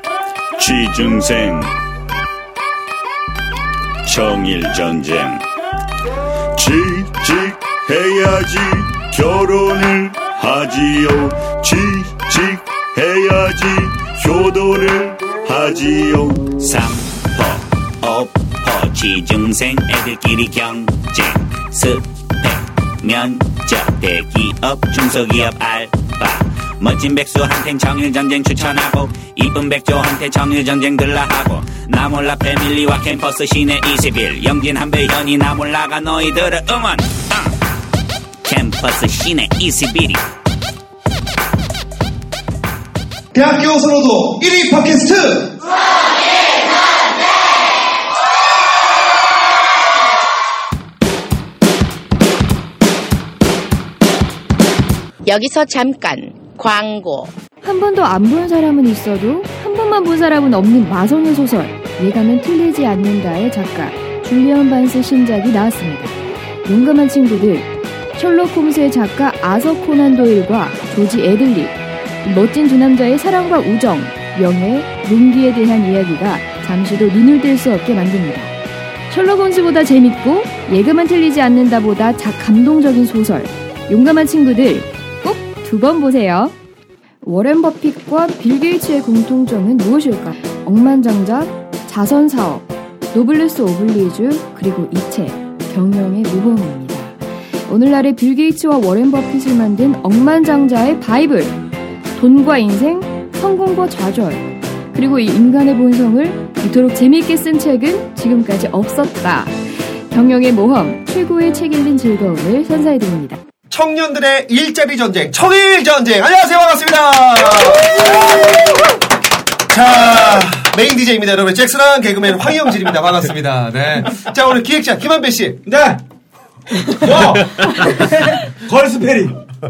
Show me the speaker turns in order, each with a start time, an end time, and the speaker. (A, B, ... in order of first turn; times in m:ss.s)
0:00.6-0:01.8 A
0:04.0-0:05.4 A
0:06.5-0:16.7 A
0:16.6-0:37.5 B
0:38.4-0:40.2 B
0:43.3-0:45.5 C
0:55.2-0:57.3 D
0:57.6-1:18.6 E
1:19.1-1:26.5 E
1:27.2-1:41.6 E
1:42.2-1:49.6 E
1:50.1-1:53.4 E
1:53.7-1:58.7 C
1:57.9-1:58.6 F
1:59.7-2:05.6 C
2:05.6-2:06.0 F
2:06.8-2:09.4 F